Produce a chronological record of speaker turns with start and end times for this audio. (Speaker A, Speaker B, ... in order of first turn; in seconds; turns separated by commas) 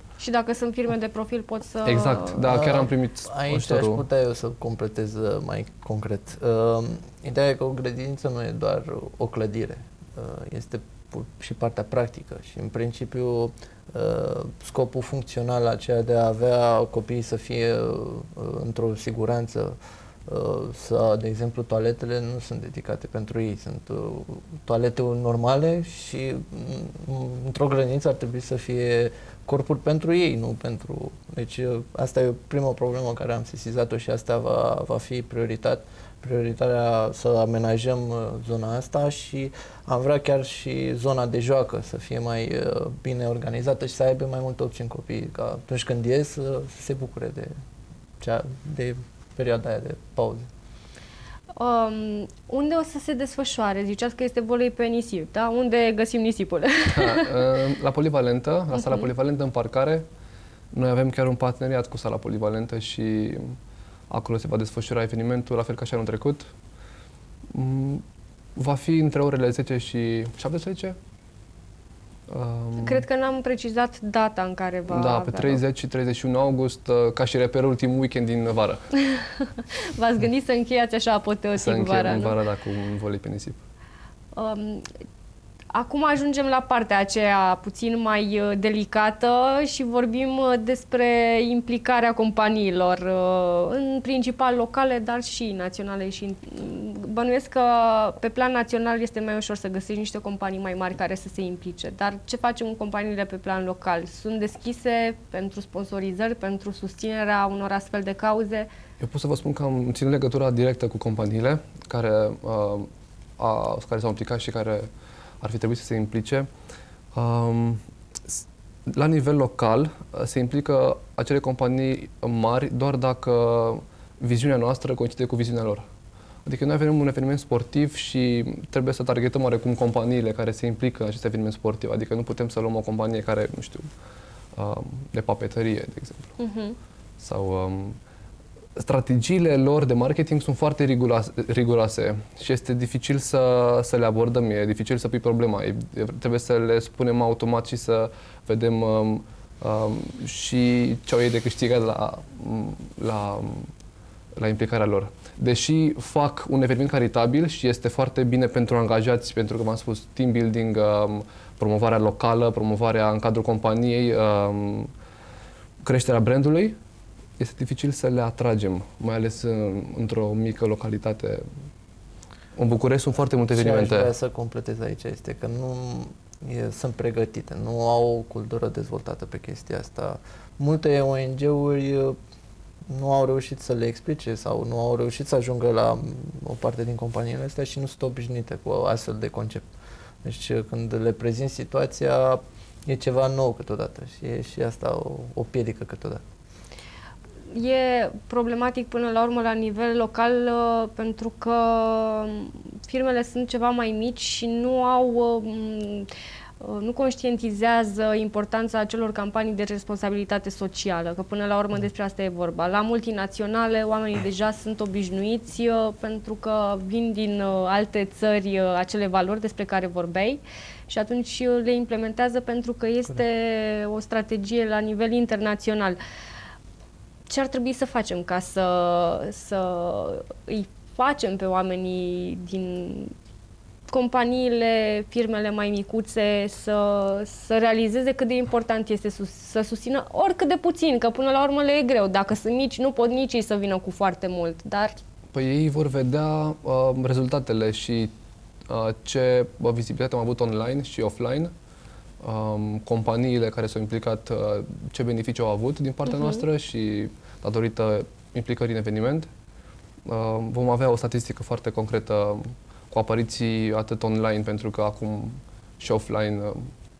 Speaker A: 0.2-2.5, Speaker B: 1.9-4.0, Speaker C: 2.5-47.5, Speaker C: 48.2-50.5, Speaker A: 51.6-57.4, Speaker B: 57.0-60.1, Speaker A: 58.8-59.1, Speaker B: 60.7-63.6, Speaker B: 64.1-66.5, Speaker B: 67.5-68.0, Speaker B: 68.6-71.0, Speaker B: 72.3-73.1, Speaker A: 72.8-75.6, Speaker B: 74.9-78.8, Speaker A: 80.0-82.4, Speaker B: 81.6-83.6, Speaker A: 84.3-84.9, Speaker A: 85.7-108.7, Speaker B: 109.0-114.9, Speaker B: 115.4-116.5, Speaker B: 117.1-125.8, Speaker B: 126.5-133.9, Speaker B: 134.6-136.3, Speaker A: 136.4-136.8, Speaker B: 137.2-138.0, Speaker B: 138.8-153.7, Speaker B: 154.4-164.9, Speaker B: 165.8-166.8, Speaker B: 167.4-171.5, Speaker B: 172.6-174.1, Speaker C: 173.5-182.2, Speaker C: 182.9-189.7, Speaker C: 190.2-196.2, Speaker A: 197.5-206.1, Speaker A: 206.6-226.0, Speaker A: 227.3-233.1, Speaker A: 233.9-245.0, Speaker B: 245.3-248.1, Speaker B: 248.7-251.5, Speaker B: 252.2-259.3, Speaker B: 260.1-266.7